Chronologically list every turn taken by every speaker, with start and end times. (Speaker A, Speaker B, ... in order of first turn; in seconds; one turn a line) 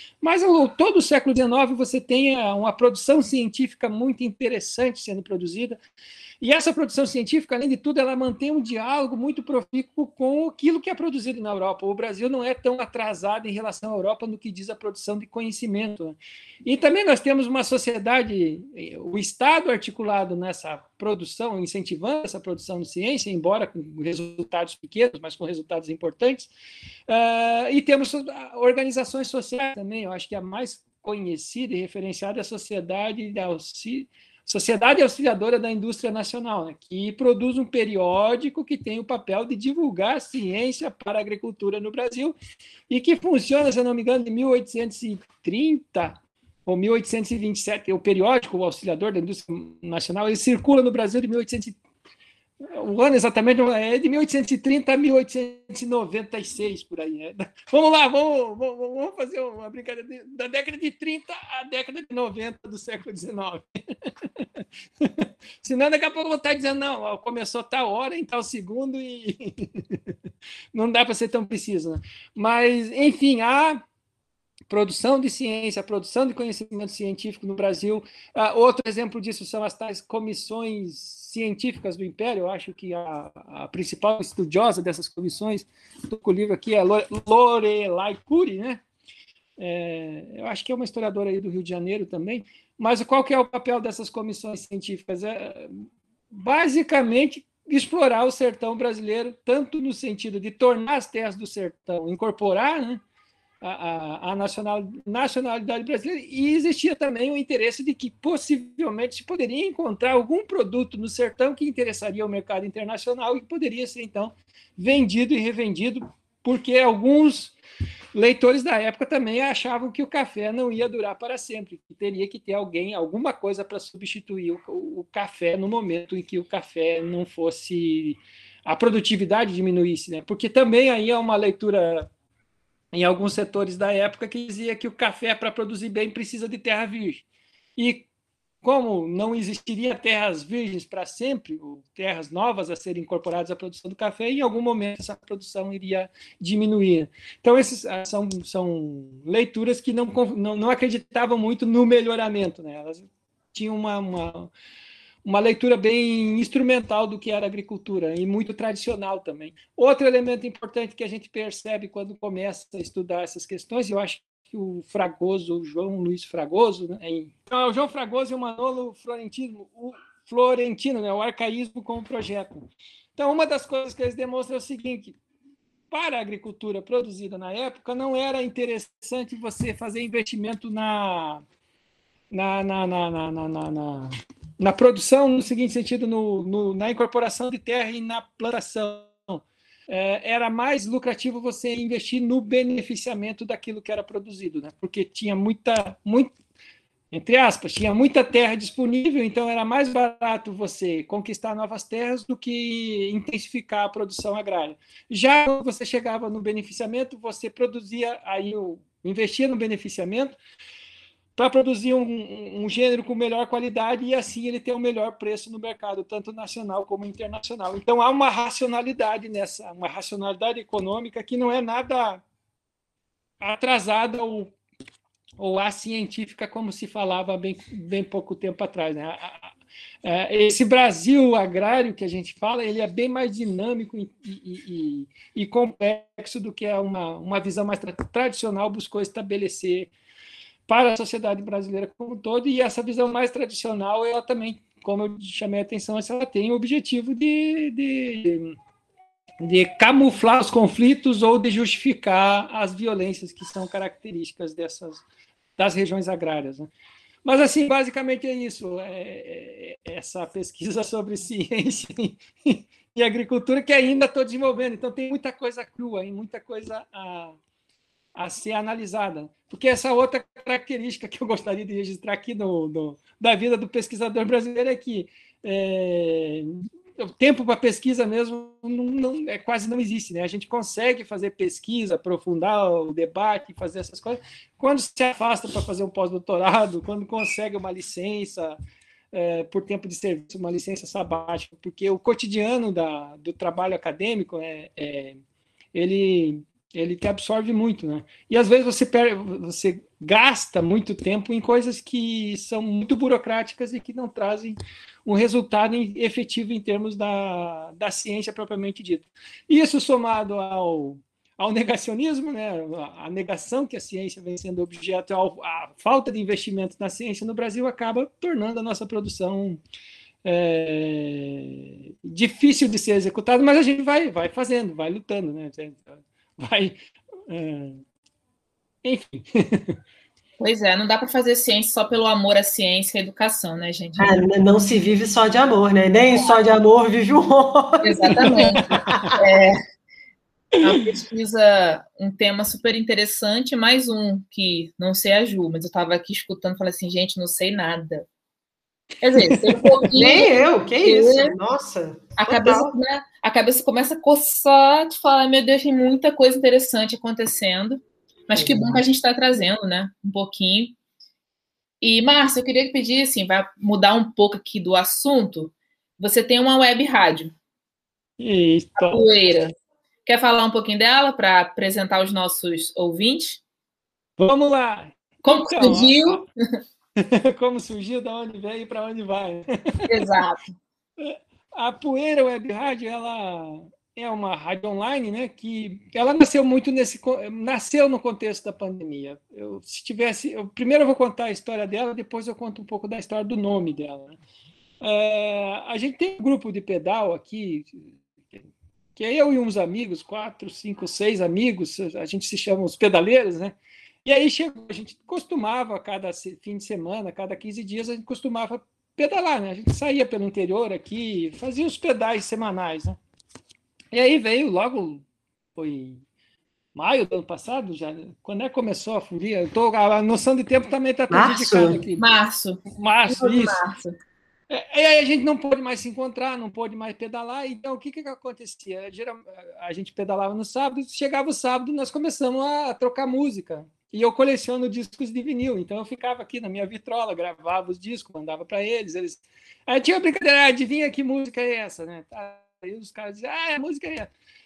Speaker A: 0.2-5.8
Speaker A: 6.4-26.5
Speaker A: 27.1-42.3
Speaker A: 42.9-51.8
Speaker A: 52.7-63.6
Speaker A: 64.3-70.1
Speaker A: 70.7-73.8
Speaker A: 74.7-88.8
Speaker A: 89.6-103.0
Speaker A: 103.6-117.5
Speaker A: 118.1-132.1
Speaker A: 132.9-137.2
Speaker A: 137.8-138.1
Speaker A: 138.6-154.5
Speaker A: 155.2-175.2
Speaker A: 175.9-181.4
Speaker A: 182.3-196.3
Speaker A: 197.1-210.4
Speaker A: 211.3-222.2
Speaker A: 223.4-224.5
Speaker A: 225.4-229.5
Speaker A: 230.0-239.9
Speaker A: 240.7-248.6
Speaker A: 249.4-255.0
Speaker A: 255.6-256.7
Speaker A: 257.2-267.4
Speaker A: 268.1-288.6
Speaker A: 289.1-295.2
Speaker A: 295.7-319.6
Speaker A: 320.2-326.8
Speaker A: 327.3-327.8
Speaker A: 328.8-329.8
Speaker B: 330.4-334.2
Speaker C: 334.0-339.2
Speaker B: 336.1-336.4
Speaker B: 337.8-339.6
Speaker A: 340.5-340.8
Speaker B: 340.6-348.1
Speaker B: 349.0-351.3
Speaker A: 349.2-349.9
Speaker C: 349.9-352.7
Speaker B: 352.2-360.8
Speaker C: 358.4-358.7
Speaker B: 361.8-367.3
Speaker A: 368.2-369.1
Speaker B: 368.8-369.5
Speaker B: 370.0-373.4
Speaker A: 374.2-376.2
Speaker B: 375.2-376.2
Speaker A: 377.0-379.9
Speaker B: 379.9-380.4
Speaker A: 381.0-394.2
Speaker A: 394.8-398.4
Speaker A: 399.0-413.0
Speaker A: 413.9-415.0
Speaker A: 415.6-416.0
Speaker A: 416.7-422.0
Speaker C: 421.1-421.8
Speaker B: 422.0-423.9
Speaker A: 422.7-423.6
Speaker A: 424.5-444.1